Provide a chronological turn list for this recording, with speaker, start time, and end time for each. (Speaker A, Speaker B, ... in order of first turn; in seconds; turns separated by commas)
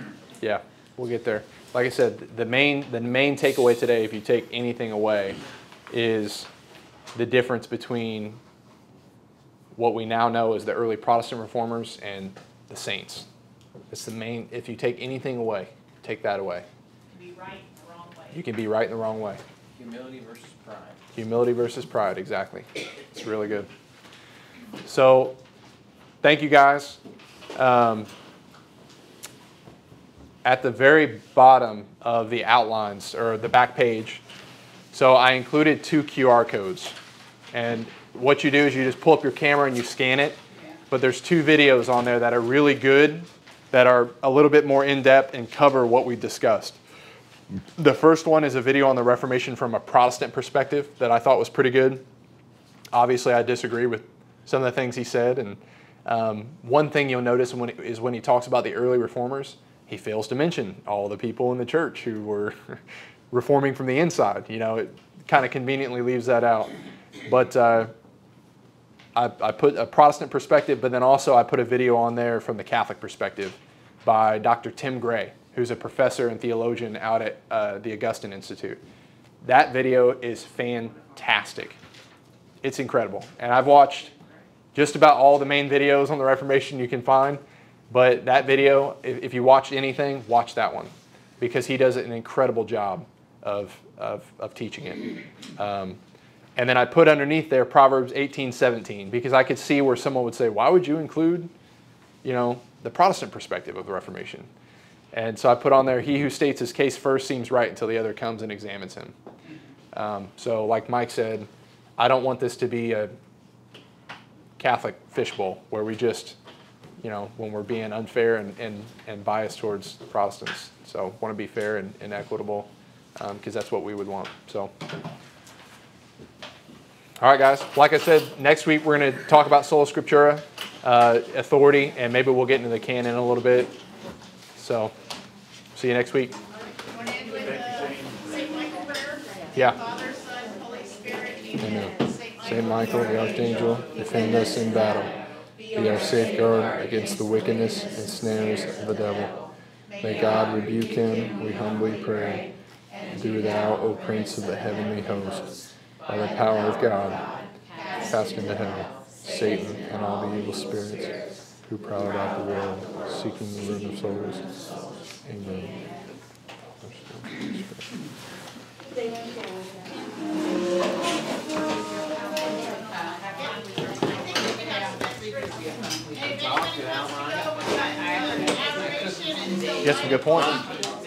Speaker A: 0.4-6.5, Speaker A: 7.1-8.4, Speaker A: 9.7-13.3, Speaker A: 13.9-16.7, Speaker B: 17.1-18.4, Speaker A: 18.3-19.4, Speaker C: 19.8-21.0, Speaker A: 21.1-23.7, Speaker A: 24.8-25.4, Speaker A: 26.2-27.0, Speaker A: 27.6-28.1, Speaker A: 30.4-34.2, Speaker A: 34.9-37.0, Speaker A: 37.5-46.8, Speaker A: 47.8-52.0, Speaker A: 52.9-66.7, Speaker A: 67.2-67.9, Speaker A: 69.2-78.8, Speaker A: 79.4-81.8, Speaker A: 82.6-84.1, Speaker A: 84.7-96.0, Speaker A: 96.6-101.5, Speaker A: 102.2-104.5, Speaker A: 105.1-109.1, Speaker A: 109.9-113.1, Speaker A: 114.6-116.4, Speaker A: 117.0-124.7, Speaker A: 127.2-133.8, Speaker A: 134.6-134.9, Speaker A: 135.7-136.3, Speaker B: 136.5-143.5, Speaker C: 137.5-138.0, Speaker A: 141.6-145.1, Speaker A: 145.7-149.3, Speaker A: 150.0-152.5, Speaker A: 153.1-155.5, Speaker A: 156.1-157.2, Speaker A: 158.1-161.1, Speaker A: 161.7-164.5, Speaker A: 165.2-165.9, Speaker A: 166.8-167.8, Speaker B: 172.4-175.8, Speaker C: 176.1-177.5, Speaker B: 177.3-180.0, Speaker A: 179.8-180.6, Speaker C: 180.3-180.7